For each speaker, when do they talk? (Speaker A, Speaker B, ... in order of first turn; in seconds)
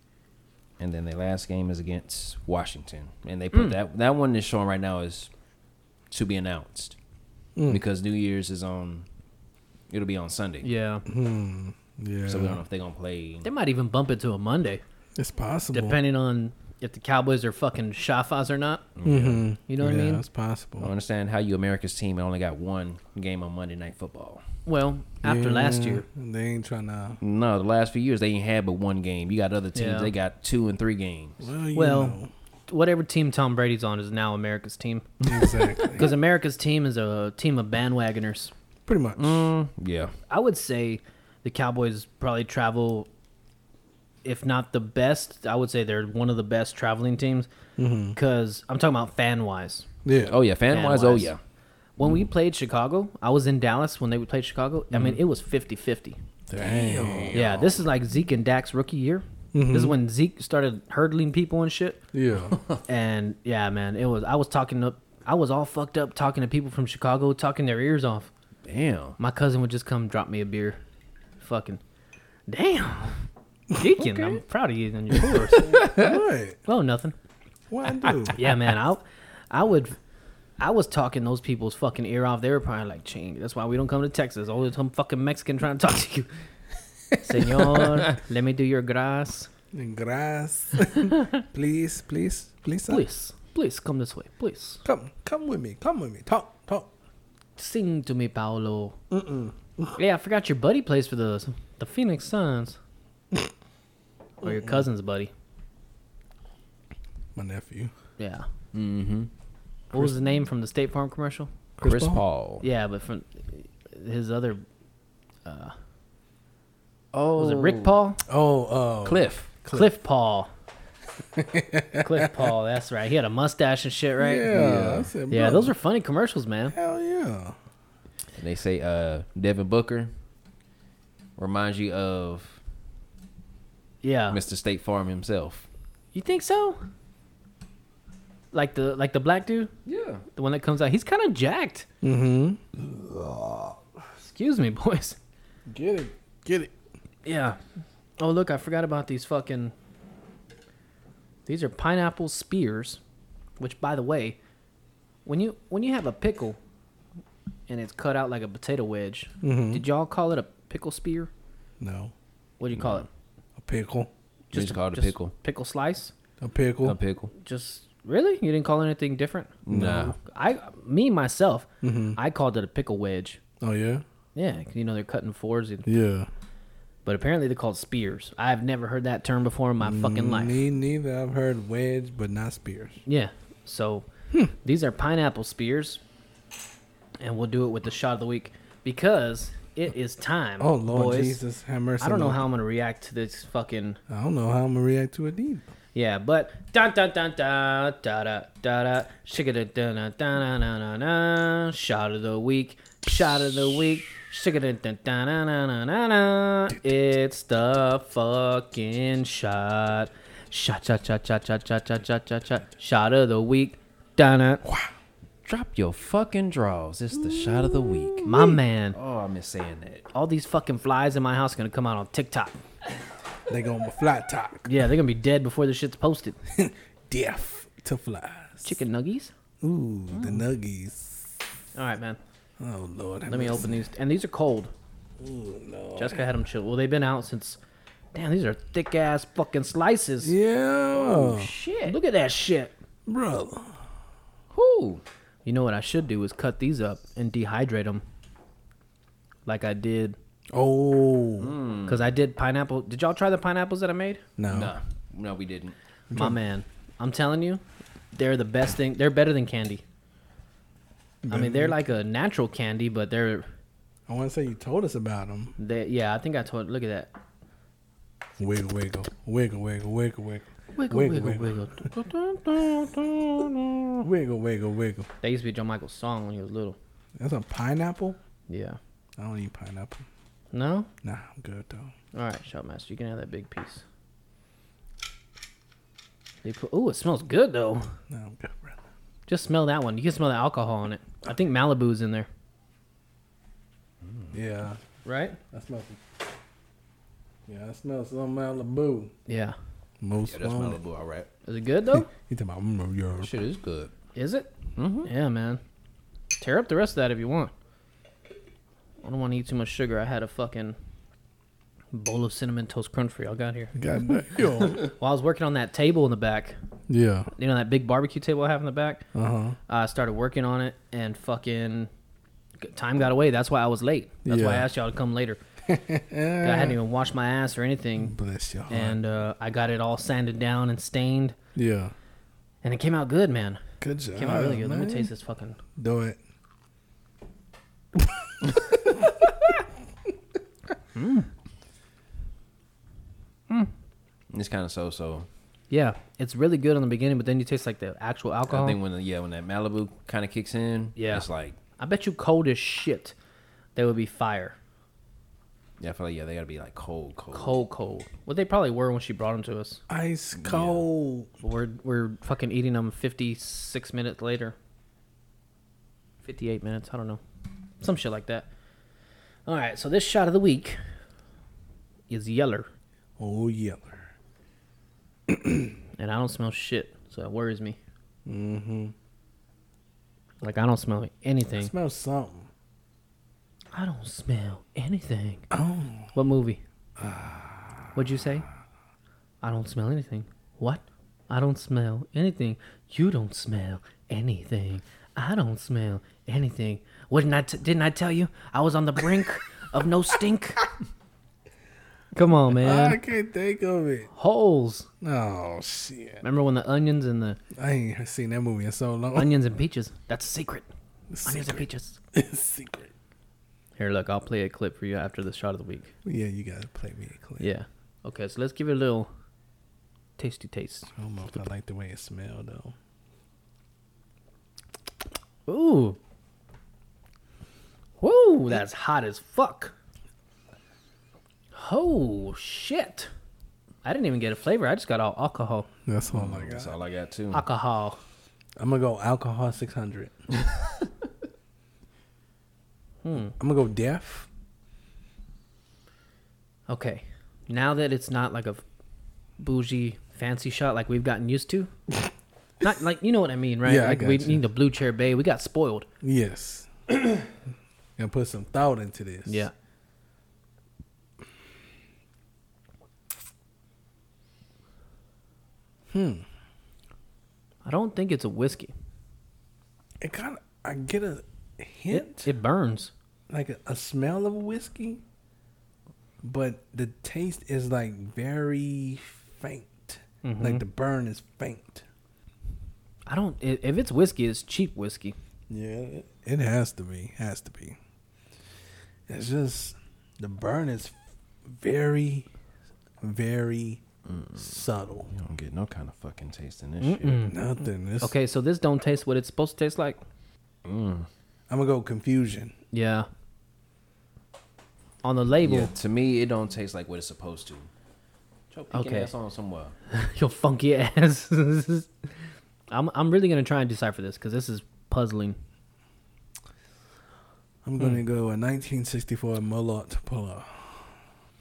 Speaker A: 0.8-5.3, 6.1-7.0, 7.7-9.1, 9.9-10.7, 12.3-13.5, 18.9-19.4, 20.8-24.4, 27.2-31.4, 39.2-40.1, 50.3-51.4, 54.9-55.2, 56.5-57.8, 62.5-62.8, 68.7-69.2, 75.6-76.0, 108.7-109.3, 111.8-112.6, 117.1-118.0, 119.0-119.5, 124.5-125.1, 128.4-130.1, 131.4-132.6, 134.3-135.7, 139.8-140.2, 162.8-163.1, 164.5-165.3, 166.8-167.3, 169.6-170.2, 215.4-218.3, 218.9-220.1, 240.9-242.0, 244.5-245.0, 251.4-252.1, 254.5-255.8, 294.0-294.4, 300.3-301.3, 303.2-303.9, 304.8-305.1, 344.3-345.3, 348.5-351.6, 355.8-357.6, 360.4-360.8, 436.1-437.4, 494.0-494.5, 495.1-497.2, 500.6-501.1, 505.4-507.7, 508.5-509.7
Speaker B: 7.5-7.8, 11.1-12.6, 15.2-16.0, 19.0-20.9, 25.2-27.2, 31.4-32.3, 35.2-36.1, 38.9-39.5, 47.8-48.2, 50.0-50.4, 56.5-57.4, 59.5-60.0, 62.1-62.6, 75.7-76.6, 77.7-78.4, 87.3-87.8, 89.7-93.0, 94.8-96.9, 99.1-99.9, 104.4-104.8, 107.3-107.9, 111.8-112.2, 118.2-119.9, 121.3-122.5, 124.2-125.7, 126.7-127.5, 142.0-143.8, 145.7-146.7, 159.4-159.8, 161.8-162.1, 163.6-164.1, 166.4-167.0, 169.7-170.1, 171.8-172.2, 173.6-174.0, 175.8-176.3, 179.8-183.0, 190.6-192.5, 194.1-195.7, 214.6-214.9, 217.3-218.5, 223.5-224.7, 226.5-228.8, 229.6-231.3, 232.6-233.8, 235.2-236.2, 240.2-241.5, 243.1-243.8, 250.5-251.5, 254.4-254.7, 256.1-256.4, 261.2-261.8, 264.1-265.5, 268.4-271.9, 274.0-275.1, 277.2-278.2, 279.2-280.1, 281.0-281.9, 288.1-288.8, 294.3-294.8, 295.5-296.0, 297.5-299.1, 300.0-300.8, 301.9-303.3, 313.7-314.8, 316.9-317.3, 319.1-319.6, 324.2-324.7, 325.6-326.8, 328.0-329.0, 331.5-331.9, 333.8-335.1, 335.8-336.2, 337.9-339.3, 359.9-361.3, 373.2-374.1, 375.3-375.7, 378.2-378.9, 381.5-382.5, 385.5-386.1, 387.0-387.9, 402.5-404.1, 405.0-406.2, 407.5-409.4, 411.1-412.9, 416.0-417.5, 420.9-422.7, 435.9-436.7, 438.6-440.1, 443.4-444.3, 453.6-454.4, 456.0-456.7, 458.0-459.5, 465.9-466.2, 470.0-472.3, 473.3-475.0, 476.2-481.8, 485.5-487.8, 489.1-492.3, 493.0-493.8, 494.4-495.1, 497.3-498.1, 501.5-502.5, 517.6-520.9
Speaker C: 10.6-11.0, 13.4-14.8, 15.7-18.8, 19.7-20.2, 24.6-26.0, 29.7-30.1, 31.7-35.1, 36.0-38.5, 40.3-43.1, 44.2-47.5, 48.1-49.9, 50.7-51.3, 52.0-56.2, 57.3-62.0, 62.9-68.3, 69.2-70.8, 71.4-71.8, 72.5-73.2, 73.8-75.9, 76.7-77.1, 78.3-80.0, 80.6-86.3, 87.2-89.5, 92.9-94.8, 97.6-99.0, 100.0-102.8, 104.4-105.3, 108.2-108.5, 109.9-111.5, 112.6-114.6, 115.4-115.7, 117.4-118.2, 119.7-120.5, 122.0-124.5, 125.3-126.7, 134.0-134.4, 136.1-136.8, 138.5-139.7, 140.3-141.9, 144.2-145.2, 147.2-147.6, 148.2-149.7, 151.4-153.0, 153.6-154.4, 155.2-156.6, 157.7-161.3, 162.6-163.1, 164.5-166.1, 167.4-169.6, 170.2-173.4, 174.3-175.9, 177.0-180.6, 183.1-184.1, 184.6-186.0, 187.2-191.4, 192.0-194.0, 195.9-214.6, 218.2-218.9, 220.1-222.6, 224.7-226.4, 228.6-229.3, 231.7-232.2, 233.3-234.7, 235.9-237.6, 238.1-240.3, 241.8-242.7, 245.4-248.0, 249.4-250.2, 251.9-254.2, 256.1-257.6, 258.1-259.8, 261.3-263.5, 265.6-267.1, 270.7-274.0, 275.2-276.8, 278.5-278.8, 280.5-280.9, 282.1-283.8, 286.4-287.9, 289.3-292.3, 295.0-295.4, 299.3-299.6, 301.4-302.1, 304.1-304.5, 305.0-305.6, 306.4-307.5, 309.0-310.8, 311.9-313.8, 314.7-316.6, 317.4-319.0, 319.7-321.9, 322.6-325.4, 326.4-328.1, 328.7-331.4, 332.6-333.6, 334.1-335.6, 340.9-341.3, 345.7-348.8, 350.9-351.2, 351.8-353.1, 353.8-354.6, 357.3-359.8, 361.4-364.6, 366.2-367.2, 367.8-368.5, 369.4-370.8, 372.1-372.7, 376.0-377.8, 380.4-381.7, 383.7-385.4, 386.1-386.6, 387.9-388.4, 389.4-400.7, 402.1-403.0, 404.1-404.9, 406.2-407.4, 409.1-410.7, 411.2-412.0, 413.8-415.9, 417.4-419.1, 420.2-420.9, 425.5-426.0, 428.0-429.7, 431.5-433.1, 433.8-435.7, 437.3-438.0, 443.0-443.4, 446.7-448.6, 449.4-451.7, 452.6-455.9, 459.2-459.5, 467.6-468.7, 471.9-472.9, 480.2-480.6, 483.1-485.1, 496.8-497.4, 498.0-500.0, 502.7-503.1, 505.0-505.7, 508.7-509.1, 509.9-512.1, 512.7-515.4